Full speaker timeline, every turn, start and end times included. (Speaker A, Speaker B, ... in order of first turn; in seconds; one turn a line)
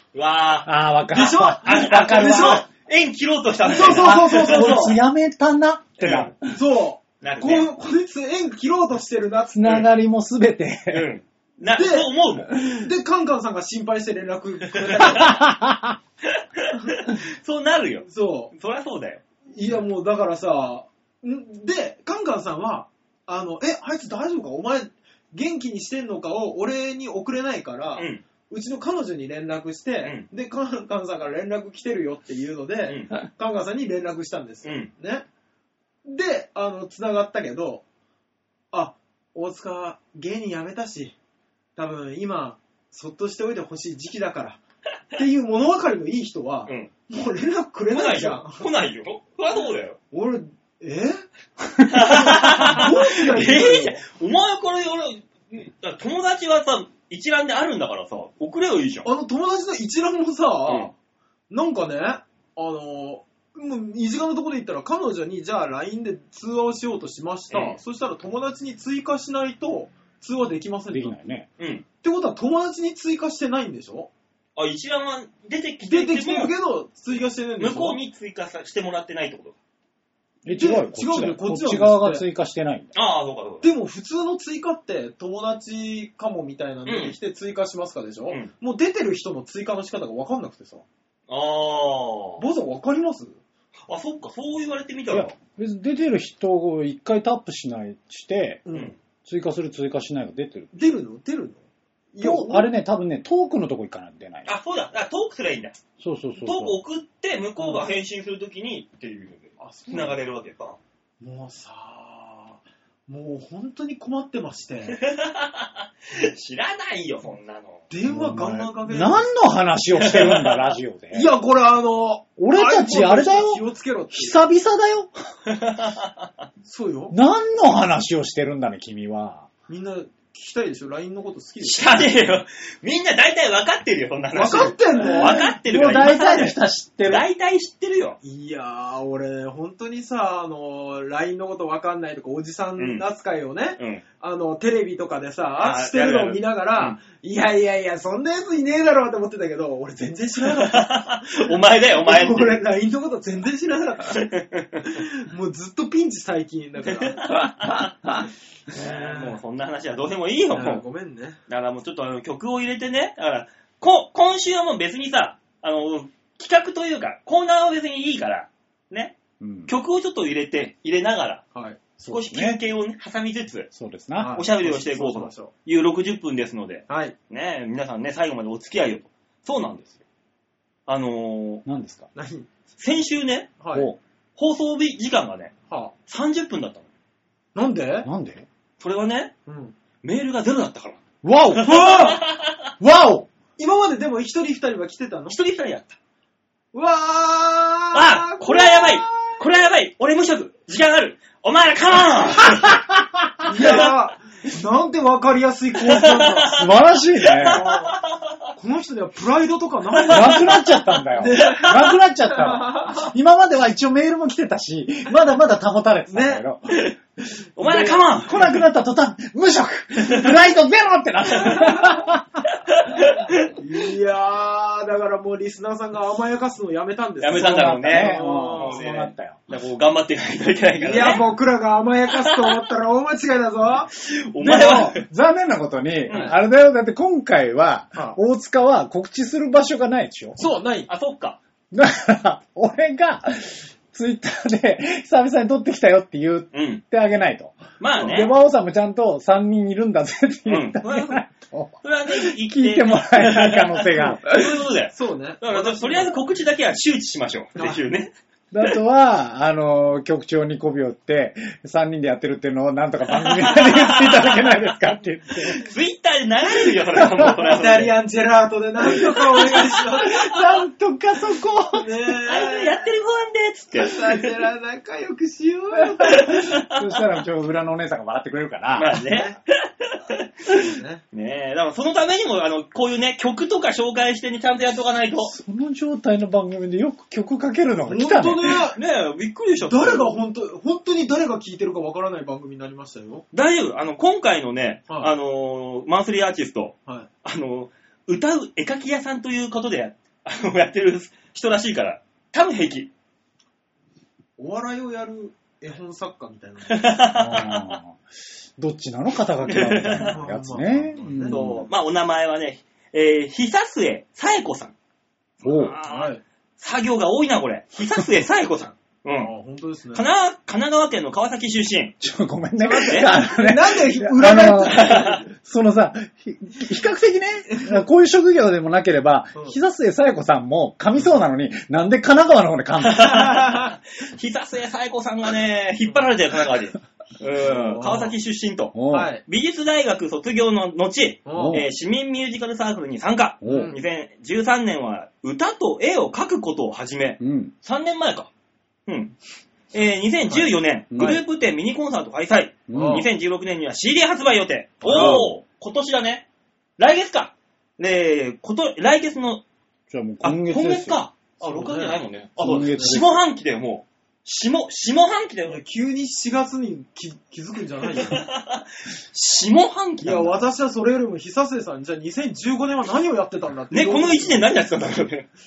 Speaker A: 0.1-0.7
Speaker B: 0.6-2.6
Speaker C: 1.1-2.6
Speaker A: 1.6-4.9
Speaker C: 3.6-5.0
Speaker B: 3.7-6.5
Speaker A: 6.0-6.3
Speaker C: 6.5-9.8
Speaker A: 7.2-7.7
Speaker B: 9.5-11.1
Speaker A: 10.9-12.5
Speaker C: 11.7-15.4
Speaker A: 14.7-15.3
Speaker B: 15.1-16.0
Speaker A: 16.2-19.2
Speaker C: 18.1-18.5
Speaker C: 19.5-35.2
Speaker A: 27.9-28.2
Speaker A: 32.9-33.1
Speaker A: 34.6-34.9
Speaker C: 36.0-37.8
Speaker C: 38.7-41.1
Speaker C: 41.8-44.6
Speaker C: 45.1-48.6
Speaker A: 47.9-50.0
Speaker C: 50.1-51.2
Speaker A: 51.9-59.1
Speaker C: 52.0-54.0
Speaker C: 59.0-60.9
Speaker C: 61.5-71.2
Speaker A: 67.5-67.8
Speaker B: 70.9-71.5
Speaker A: 71.6-71.8
Speaker C: 72.0-74.1
Speaker A: 74.5-76.5
Speaker C: 75.8-78.0
Speaker A: 77.6-79.5
Speaker B: 80.4-82.9
Speaker C: 80.5-82.2
Speaker A: 82.9-83.7
Speaker C: 83.6-90.8
Speaker A: 86.8-87.2
Speaker A: 91.3-92.4
Speaker C: 92.4-93.4
Speaker A: 93.9-95.3
Speaker B: 95.1-98.6
Speaker C: 98.7-98.9
Speaker B: 99.2-100.7
Speaker C: 100.7-101.6
Speaker C: 102.1-102.7
Speaker B: 102.2-104.5
Speaker A: 104.4-105.8
Speaker B: 106.0-106.8
Speaker A: 106.4-110.8
Speaker C: 107.6-107.9
Speaker C: 109.6-110.2
Speaker C: 111.2-115.0
Speaker A: 114.9-117.8
Speaker C: 117.9-119.3
Speaker B: 118.1-121.3
Speaker A: 119.9-120.8
Speaker C: 121.1-124.4
Speaker B: 122.4-125.1
Speaker A: 125.5-126.3
Speaker C: 126.6-127.1
Speaker B: 127.1-129.5
Speaker C: 129.7-132.1
Speaker A: 131.6-138.2
Speaker C: 134.3-135.5
Speaker B: 135.0-137.2
Speaker C: 138.2-154.2
Speaker A: 142.8-143.0
Speaker A: 143.8-144.0
Speaker A: 145.6-147.0
Speaker A: 150.4-152.6
Speaker A: 154.1-155.0
Speaker C: 154.9-157.4
Speaker A: 156.8-157.9
Speaker C: 158.7-159.4
Speaker A: 158.7-160.8
Speaker C: 160.5-161.4
Speaker A: 161.5-171.4
Speaker B: 169.4-169.7
Speaker C: 171.5-171.8
Speaker A: 172.0-173.7
Speaker B: 172.0-172.6
Speaker B: 173.7-174.4
Speaker C: 174.2-175.5
Speaker A: 174.3-180.0
Speaker C: 176.9-177.1
Speaker A: 180.9-181.6
Speaker B: 181.6-182.1
Speaker C: 182.1-182.5
Speaker A: 182.8-183.5
Speaker C: 183.6-183.9
Speaker A: 184.4-185.5
Speaker C: 185.7-185.9
Speaker A: 186.1-186.8
Speaker C: 187.5-188.1
Speaker B: 188.0-188.4
Speaker A: 188.8-189.3
Speaker C: 189.5-189.7
Speaker A: 190.0-191.0
Speaker B: 191.2-192.0
Speaker A: 191.5-192.7
Speaker C: 191.6-192.2
Speaker B: 192.8-193.3
Speaker C: 193.6-195.3
Speaker A: 195.3-196.0
Speaker C: 196.7-199.4
Speaker A: 197.9-202.7
Speaker B: 202.4-203.4
Speaker C: 203.4-206.6
Speaker A: 203.6-203.9
Speaker A: 205.8-208.3
Speaker B: 206.5-207.6
Speaker C: 207.4-207.9
Speaker C: 208.6-210.6
Speaker A: 209.9-210.8
Speaker B: 210.1-216.8
Speaker C: 211.2-213.1
Speaker A: 211.3-211.9
Speaker C: 216.1-216.4
Speaker A: 216.7-217.0
Speaker A: 217.6-218.5
Speaker C: 217.6-218.4
Speaker B: 217.7-222.4
Speaker C: 221.4-222.0
Speaker A: 222.7-223.5
Speaker C: 223.5-228.8
Speaker A: 227.2-231.3
Speaker B: 227.3-229.4
Speaker C: 230.8-233.9
Speaker A: 233.9-235.0
Speaker B: 234.4-240.4
Speaker A: 236.1-236.3
Speaker C: 236.1-236.3
Speaker C: 240.4-240.9
Speaker A: 240.9-241.4
Speaker B: 241.7-254.6
Speaker A: 246.5-246.8
Speaker A: 247.8-248.3
Speaker A: 250.4-251.2
Speaker A: 251.8-258.1
Speaker C: 254.9-256.2
Speaker B: 258.5-265.6
Speaker A: 263.1-264.8
Speaker A: 265.4-267.9
Speaker B: 267.0-267.3
Speaker C: 267.2-270.5
Speaker A: 269.3-270.0
Speaker B: 270.3-271.9
Speaker C: 271.7-272.9
Speaker A: 272.2-274.4
Speaker C: 273.7-276.4
Speaker A: 276.1-277.0
Speaker B: 276.1-279.0
Speaker A: 278.7-285.3
Speaker C: 279.1-279.4
Speaker C: 280.5-281.0
Speaker B: 285.2-288.6
Speaker C: 287.9-288.8
Speaker A: 288.5-290.2
Speaker C: 289.6-293.2
Speaker A: 293.3-302.9
Speaker C: 304.4-306.9
Speaker A: 306.7-307.8
Speaker B: 307.1-308.0
Speaker B: 308.6-311.6
Speaker A: 309.4-310.2
Speaker C: 310.1-311.6
Speaker A: 311.2-314.7
Speaker A: 315.4-319.3
Speaker B: 315.4-315.8
Speaker C: 315.8-316.2
Speaker C: 319.1-320.1
Speaker A: 319.9-322.0
Speaker B: 322.0-333.4
Speaker C: 322.6-325.2
Speaker A: 322.6-323.1
Speaker A: 324.6-325.2
Speaker C: 327.5-327.8
Speaker A: 332.8-348.3
Speaker C: 333.0-333.7
Speaker C: 337.4-338.1
Speaker B: 338.7-339.1
Speaker C: 338.9-339.2
Speaker C: 341.2-341.6
Speaker B: 341.3-341.6
Speaker B: 343.4-343.7
Speaker C: 343.4-343.8
Speaker B: 347.2-347.5
Speaker A: 348.9-349.1
Speaker A: 349.7-356.2
Speaker C: 350.3-350.5
Speaker B: 350.9-351.2
Speaker B: 352.7-353.1
Speaker C: 352.7-353.1
Speaker C: 354.8-355.3
Speaker B: 354.8-355.4
Speaker A: 356.8-359.4
Speaker B: 359.9-361.0
Speaker A: 360.2-365.6
Speaker C: 361.4-363.0
Speaker B: 362.4-363.2
Speaker C: 365.5-368.2
Speaker A: 367.9-370.4
Speaker C: 370.0-374.5
Speaker A: 373.7-375.3